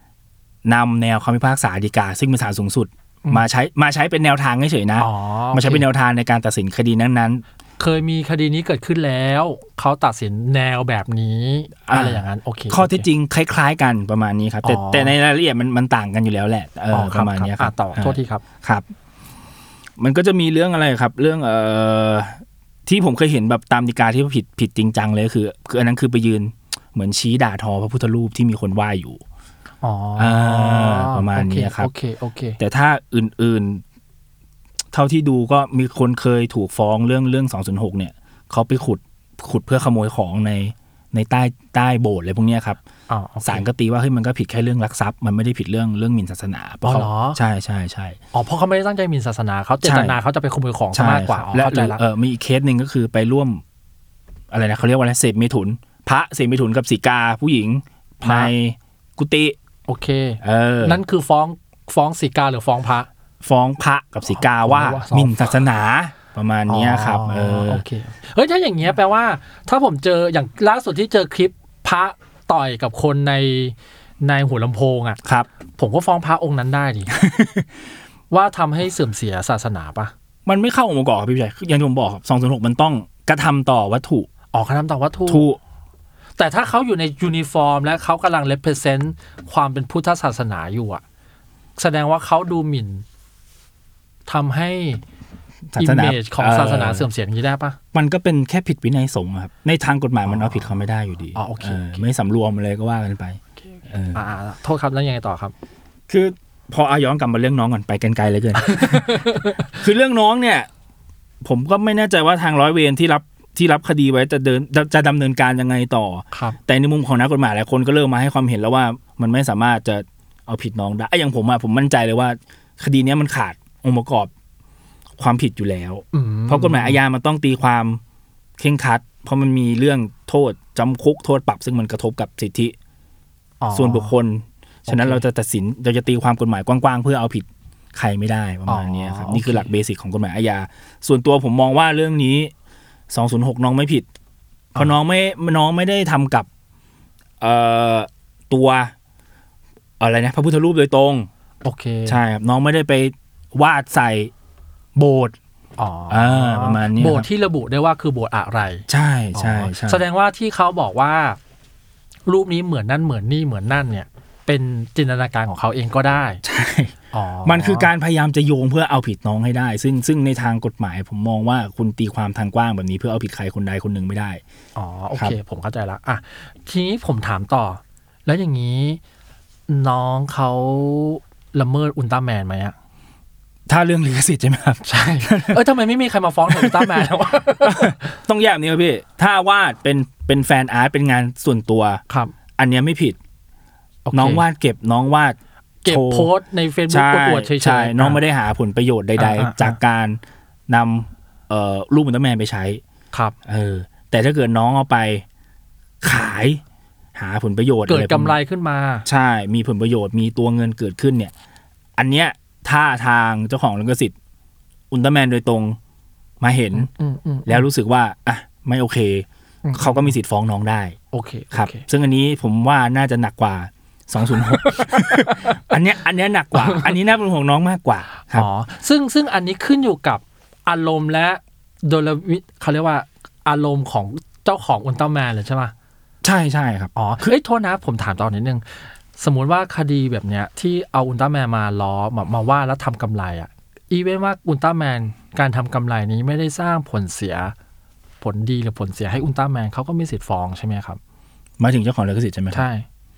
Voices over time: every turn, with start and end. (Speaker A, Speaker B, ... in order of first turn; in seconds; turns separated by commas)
Speaker A: 0.6-7.4, Speaker B: 5.0-5.8, Speaker B: 7.8-13.1, Speaker A: 11.9-18.9, Speaker B: 14.6-15.2, Speaker B: 16.9-18.4, Speaker A: 20.0-29.2, Speaker B: 29.8-32.6, Speaker A: 30.2-31.9, Speaker A: 32.6-33.8, Speaker A: 34.9-42.8, Speaker B: 43.1-43.7, Speaker A: 43.4-48.2, Speaker B: 46.8-47.4, Speaker B: 48.3-52.0, Speaker A: 49.8-50.2, Speaker A: 50.9-53.6, Speaker A: 54.5-59.5, Speaker B: 58.2-58.5, Speaker B: 59.9-63.1, Speaker A: 60.4-61.0, Speaker A: 63.4-67.8, Speaker B: 64.3-65.6, Speaker B: 66.7-75.2, Speaker B: 75.8-77.1, Speaker A: 77.1-77.6, Speaker B: 78.3-80.1, Speaker A: 80.5-84.3, Speaker B: 84.5-85.5, Speaker A: 85.3-85.6, Speaker B: 86.4-91.0, Speaker B: 91.8-93.0, Speaker B: 94.2-95.0, Speaker A: 95.7-97.1, Speaker B: 95.8-97.8, Speaker A: 97.9-104.2, Speaker B: 100.2-100.8, Speaker B: 101.3-102.0, Speaker B: 104.1-105.5, Speaker A: 106.1-110.7, Speaker B: 108.6-109.7, Speaker A: 111.4-124.3, Speaker B: 116.3-116.6, Speaker A: 125.2-128.0, Speaker B: 126.1-127.0, Speaker A: 128.6-132.7, Speaker B: 133.6-134.1, Speaker A: 133.7-142.5, Speaker B: 134.9-135.2, Speaker B: 138.7-139.7, Speaker A: 143.1-144.1, Speaker A: 144.7-146.5, Speaker A: 147.4-148.9, Speaker A: 150.0-151.3, Speaker B: 151.6-152.2, Speaker A: 152.1-154.3, Speaker A: 154.9-155.3, Speaker B: 155.8-161.4, Speaker A: 156.1-157.3, Speaker A: 158.9-160.0, Speaker B: 162.2-166.4, Speaker A: 166.4-174.4, Speaker B: 167.1-167.9, Speaker B: 174.8-179.0, Speaker B: 179.7-182.7, Speaker A: 183.7-185.6, Speaker B: 184.8-188.0, Speaker A: 186.5-192.0, Speaker B: 192.1-192.3, Speaker A: 192.6-193.2, Speaker B: 194.1-194.4, Speaker A: 194.1-196.3, Speaker B: 195.8-198.2, Speaker A: 196.9-202.8, Speaker B: 199.2-199.8, Speaker A: 203.4-205.2, Speaker A: 206.0-206.6, Speaker A: 207.2-208.3, Speaker B: 207.9-209.1, Speaker A: 209.1-211.3, Speaker A: 212.0-214.1, Speaker A: 214.9-215.8, Speaker A: 216.4-216.9, Speaker B: 216.8-217.7, Speaker A: 217.4-220.9, Speaker B: 219.6-220.1, Speaker B: 221.1-221.8, Speaker A: 221.5-228.5, Speaker B: 224.6-225.5, Speaker B: 226.6-226.9, Speaker B: 228.3-235.7, Speaker A: 236.2-237.3, Speaker B: 236.9-247.5, Speaker B: 248.2-251.0, Speaker A: 251.6-252.7, Speaker B: 252.5-252.8